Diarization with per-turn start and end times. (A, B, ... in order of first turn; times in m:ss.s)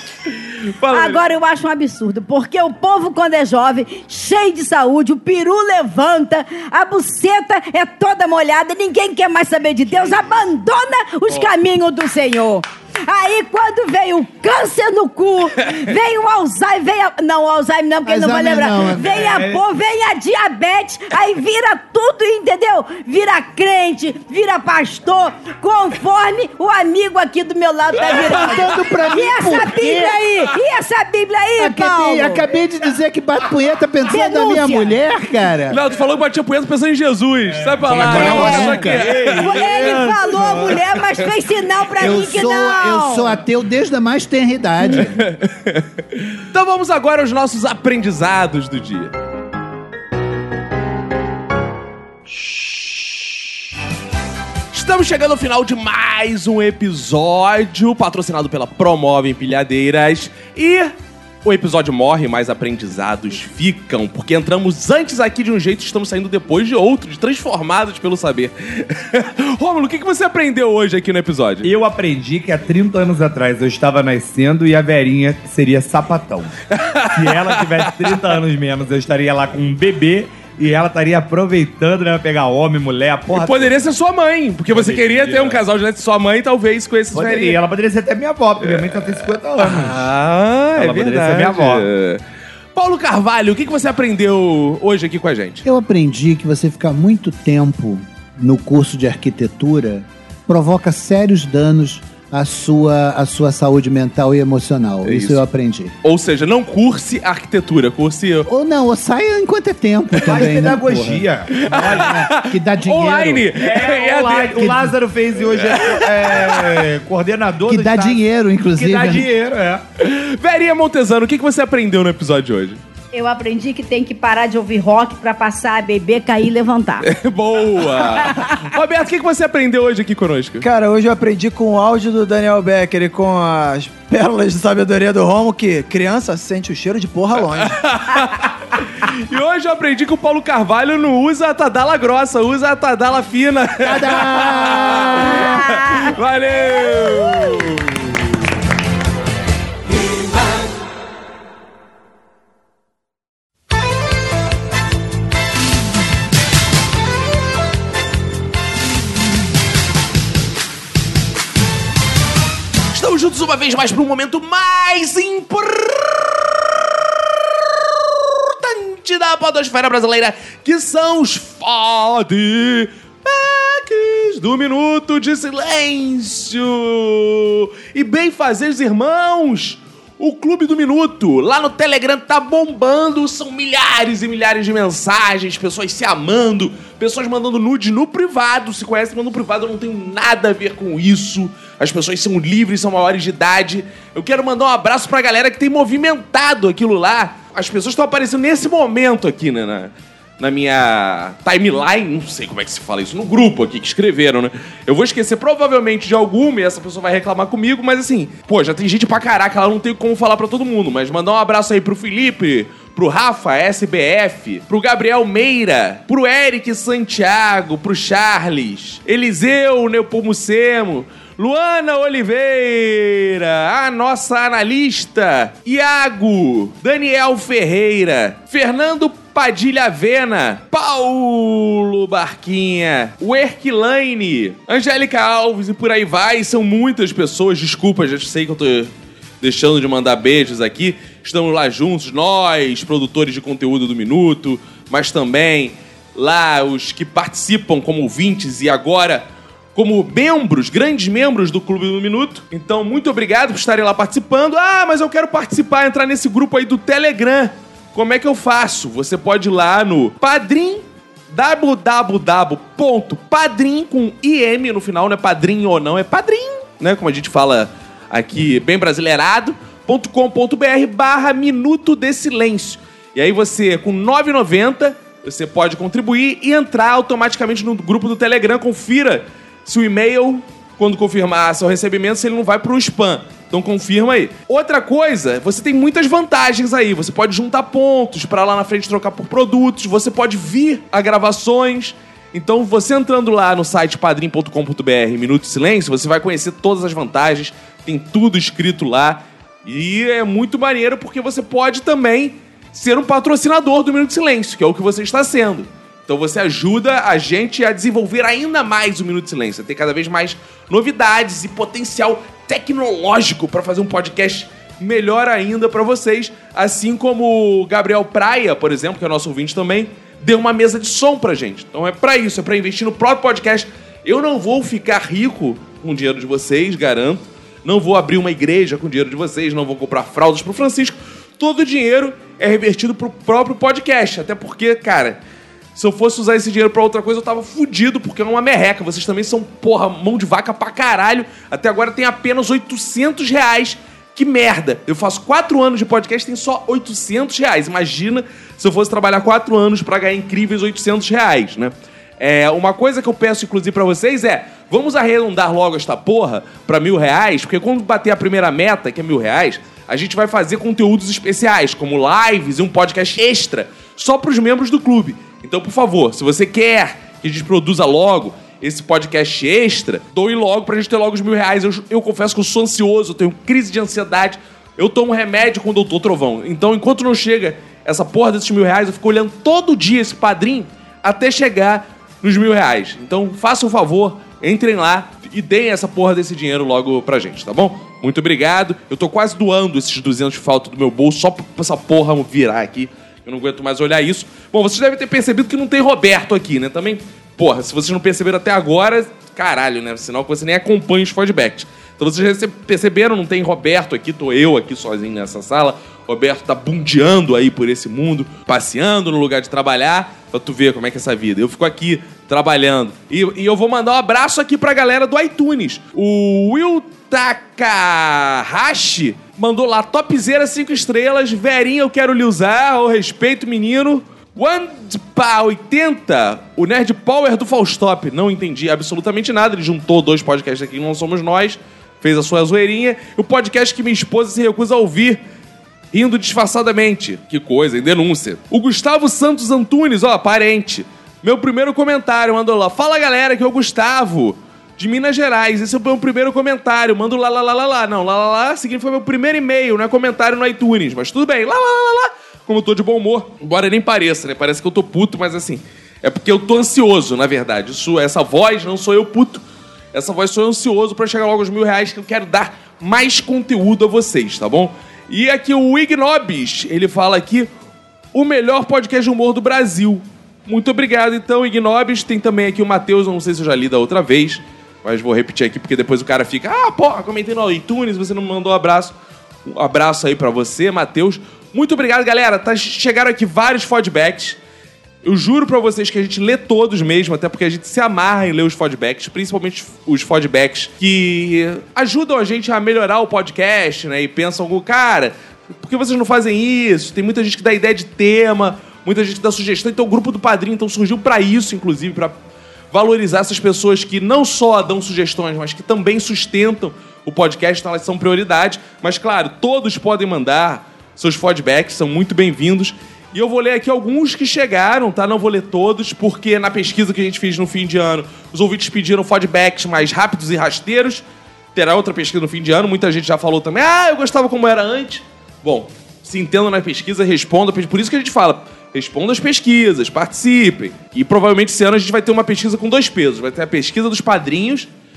0:00.8-0:01.2 A
0:00.9-0:32.4 B
0:18.1-0:19.2 C
0:19.1-0:19.6 D
0:28.1-0:30.2 C
0:31.6-0:35.8 C
0:34.1-0:34.9 B
0:35.7-0:39.5 A
0:37.5-0:40.8 D
0:37.9-0:39.1 C
0:38.2-0:38.8 B
0:39.4-0:43.4 B
0:42.0-0:45.2 C
0:45.0-0:49.1 A
0:54.7-1:00.9 A
1:01.4-1:11.7 A
1:11.6-1:16.6 D
1:16.7-1:18.1 A
1:17.1-1:23.9 D
1:23.3-1:27.6 A
1:24.7-1:25.6 D
1:27.1-1:30.1 D
1:28.6-1:32.2 A
1:30.8-1:31.9 D
1:32.8-1:35.6 A
1:35.6-1:45.9 C
1:45.0-1:45.4 A
1:46.0-1:48.5 A
1:48.4-1:53.5 C
1:50.2-1:52.1 D
1:51.5-1:54.8 A
1:53.6-1:58.2 D
1:54.6-1:54.9 C
1:55.6-1:56.8 A
1:57.7-1:59.3 C
1:58.7-1:59.8 D
2:00.0-2:02.8 A
2:03.1-2:07.1 B
2:07.0-2:10.7 A
2:10.6-2:17.9 E
2:17.6-2:28.4 A
2:23.8-2:25.6 C
2:25.3-2:26.1 B
2:42.9-2:46.2 A
2:48.1-5:35.2 A
5:35.8-7:15.2 A
7:15.9-7:47.5 A
7:48.1-7:58.9 A
7:59.4-8:04.4 A
8:05.0-8:22.2 A
8:22.7-8:41.0 A
8:41.6-8:54.7 A